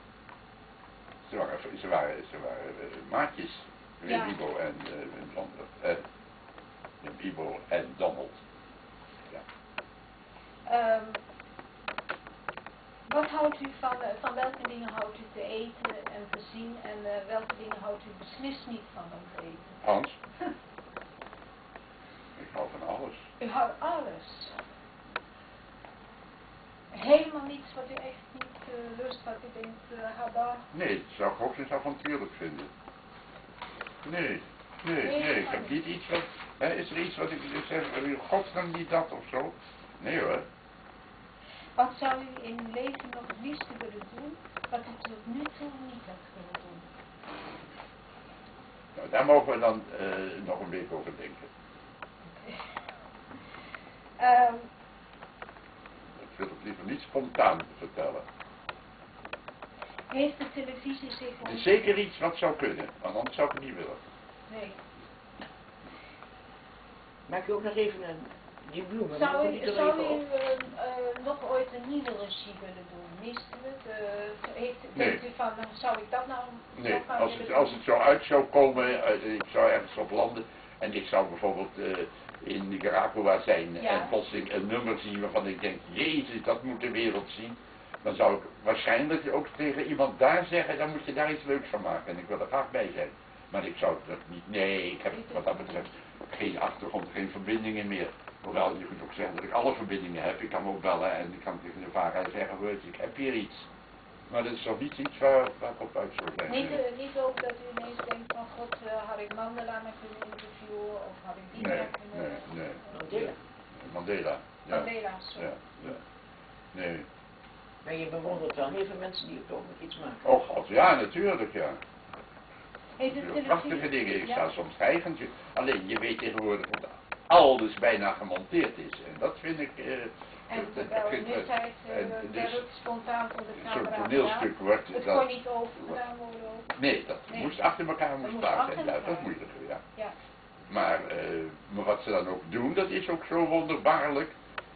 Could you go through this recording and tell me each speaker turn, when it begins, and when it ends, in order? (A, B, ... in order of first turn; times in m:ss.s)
0:01.3-0:06.0 A
0:04.0-0:04.4 B
0:07.0-0:08.4 A
0:10.6-0:11.2 B
0:13.1-0:19.8 B
0:19.8-0:20.1 A
0:22.4-0:23.2 A
0:23.4-0:24.6 B
0:26.9-0:30.7 B
0:30.7-0:32.7 A
0:34.0-0:40.4 A
0:35.0-0:35.8 B
0:41.8-0:46.9 B
0:49.0-0:51.5 A
0:52.3-0:52.6 B
0:54.2-0:54.7 B
0:56.2-0:58.2 A
1:00.1-1:01.8 B
1:01.4-1:04.0 A
1:04.5-1:04.8 B
1:07.3-1:10.2 C
1:09.1-1:17.8 B
1:15.0-1:15.2 A
1:16.8-1:43.7 A
1:23.8-1:24.1 B
1:35.1-1:35.8 B
1:44.3-1:46.8 A
1:46.5-1:52.5 B
1:51.5-1:56.0 A
1:52.9-1:53.3 C
1:54.7-1:55.5 B
1:56.7-1:57.1 A
1:57.8-2:00.2 C
2:00.2-2:01.8 A
2:03.0-2:04.5 B
2:03.1-2:12.6 A
2:10.5-2:16.7 B
2:13.6-2:15.2 A
2:16.8-2:19.8 A
2:17.3-2:17.6 B
2:18.2-2:19.3 B
2:20.7-2:24.3 A